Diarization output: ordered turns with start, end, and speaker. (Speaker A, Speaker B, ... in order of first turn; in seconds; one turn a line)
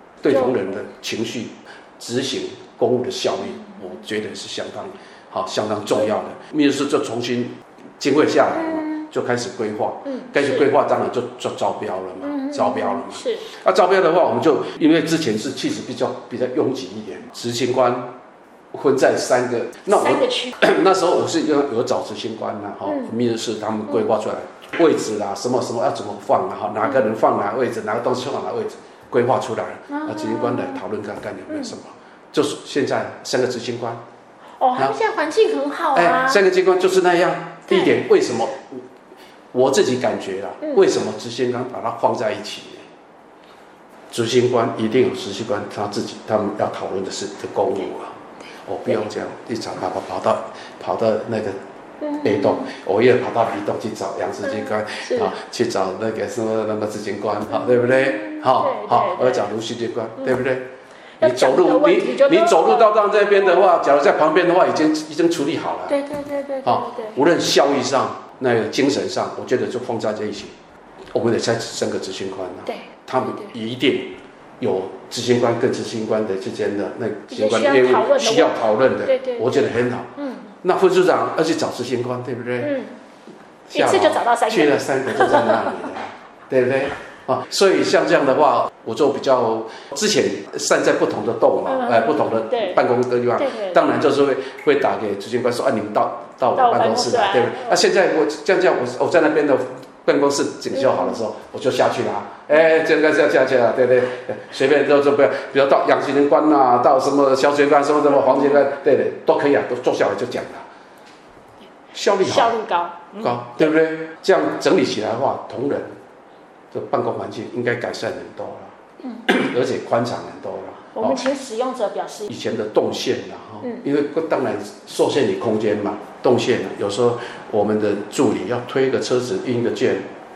Speaker A: 0.2-18.1
Speaker B: 0.3-0.6
Speaker B: 8.6-9.1
Speaker B: 10.1-10.7
Speaker B: 12.2-13.5
Speaker A: 18.7-34.0
Speaker B: 19.9-20.6
Speaker B: 22.9-23.1
Speaker B: 29.9-30.8
Speaker B: 34.6-36.4
Speaker A: 35.9-38.9
Speaker B: 37.7-38.0
Speaker A: 39.5-42.9
Speaker A: 44.1-51.6
Speaker B: 52.0-52.7
Speaker A: 52.2-60.7
Speaker B: 54.5-55.4
Speaker B: 57.5-59.5
Speaker B: 61.2-63.6
Speaker A: 61.2-66.0
Speaker B: 65.9-67.2
Speaker A: 66.7-70.5
Speaker A: 71.1-80.1
Speaker B: 72.7-73.5
Speaker B: 77.3-80.5
Speaker A: 80.6-82.8
Speaker B: 82.6-83.0
Speaker A: 83.7-110.7
Speaker B: 83.7-85.7
Speaker B: 91.7-92.8
Speaker B: 93.4-93.8
Speaker B: 96.6-97.8
Speaker B: 100.8-101.2
Speaker B: 108.3-108.6
Speaker A: 111.9-112.6
Speaker B: 112.2-113.7
Speaker A: 113.1-115.9
Speaker A: 116.7-118.7
Speaker A: 119.3-121.2
Speaker B: 121.0-122.3
Speaker A: 122.3-130.1